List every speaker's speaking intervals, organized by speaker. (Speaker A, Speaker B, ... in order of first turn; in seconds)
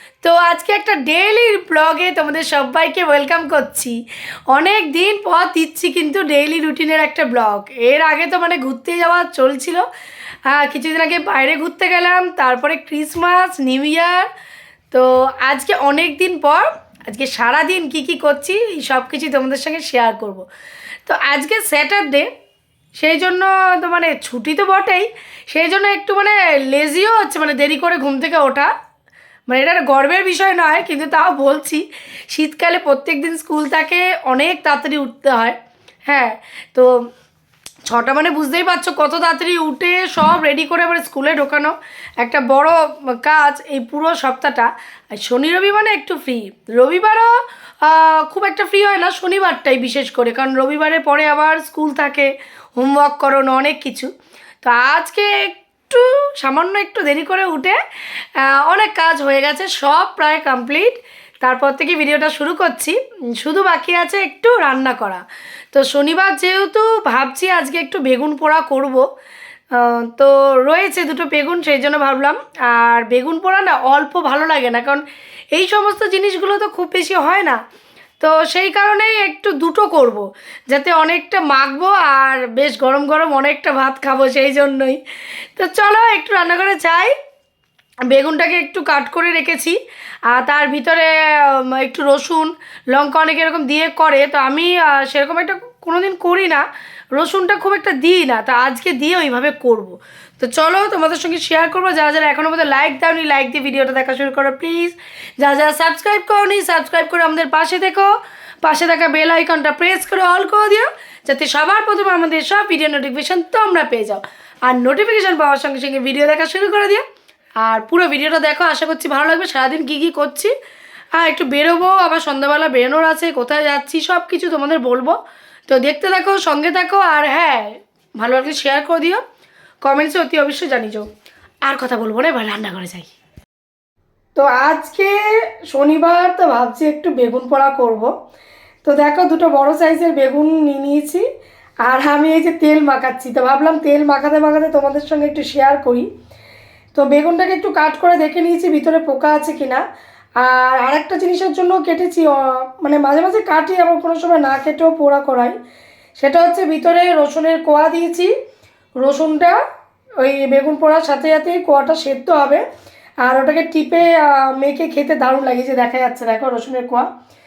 Speaker A: 0.2-4.0, 4.5-9.8, 10.5-14.3, 14.9-20.5, 21.1-22.3, 23.0-28.7, 29.5-36.9, 37.9-54.1, 54.6-57.8, 58.4-69.0, 69.7-77.6, 78.2-85.0, 85.6-87.1, 88.1-89.8, 90.3-117.0, 117.6-120.5, 121.2-125.2, 125.7-129.2, 129.8-131.1, 131.7-133.2, 134.3-138.1, 138.8-141.2, 141.8-146.1, 146.9-149.8, 150.4-155.6, 156.2-158.3, 159.0-159.6, 160.2-162.6, 163.2-167.1